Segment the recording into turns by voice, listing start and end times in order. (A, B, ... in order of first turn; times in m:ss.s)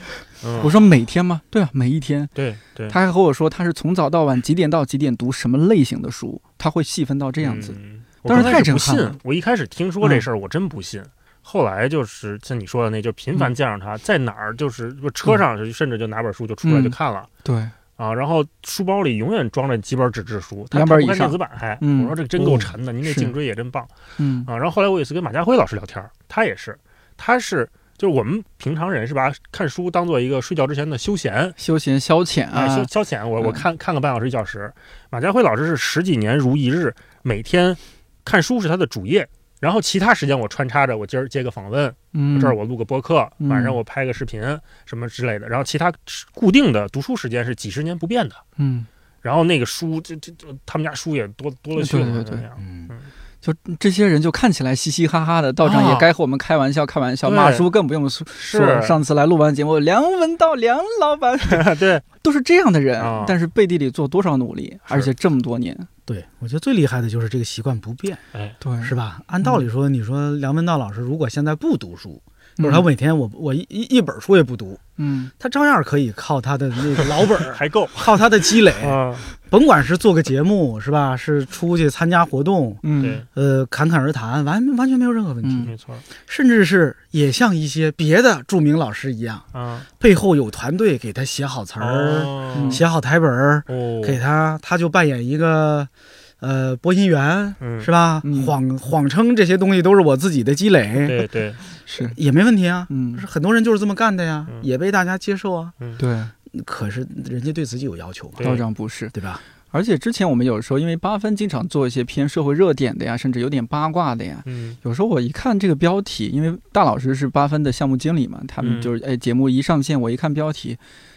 0:00.4-0:00.8 A
0:00.6-0:02.3 B
0:02.4-0:03.0 A
0:02.9-0:09.2 B
0:07.4-0:17.3 A
0:10.0-0:10.3 B
0:16.6-0:17.7 B
0:18.0-0:23.9 A
0:20.7-0:23.3 B
0:24.2-0:24.5 B
0:24.5-0:31.6 A
0:31.6-0:33.6 B
0:32.5-0:48.4 A
0:42.1-0:42.6 B
0:43.4-0:43.8 B
0:48.6-0:48.9 B
0:49.2-0:53.1 A
0:51.8-0:52.5 B
0:52.6-0:52.9 C
0:53.4-1:05.9 B
0:55.6-0:56.1 A
0:57.2-0:57.7 A
0:58.4-0:59.0 A
1:01.5-1:02.0 A
1:03.0-1:03.4 A
1:06.1-1:08.2 C
1:08.6-1:09.6 B
1:08.8-1:14.8 C
1:12.6-1:12.9 B
1:15.0-1:15.3 B
1:15.4-1:29.5 C
1:17.4-1:19.3 A
1:22.8-1:23.2 B
1:23.0-1:23.3 A
1:25.4-1:25.7 B
1:25.7-1:26.0 A
1:29.5-1:29.9 A
1:30.0-1:35.9 C
1:31.8-1:32.8 A
1:32.5-1:32.8 B
1:33.7-1:34.2 A
1:36.4-1:41.2 C
1:37.6-1:37.9 A
1:38.2-1:38.6 B
1:41.0-1:41.6 A
1:41.9-1:42.2 B
1:42.0-1:45.7 C
1:42.9-1:43.2 B
1:46.0-1:46.3 B
1:46.5-1:48.4 C
1:48.4-1:48.6 A
1:48.4-1:49.2 B
1:49.1-1:49.4 C
1:49.7-2:00.8 B
1:54.4-1:54.8 A
1:58.6-1:58.9 A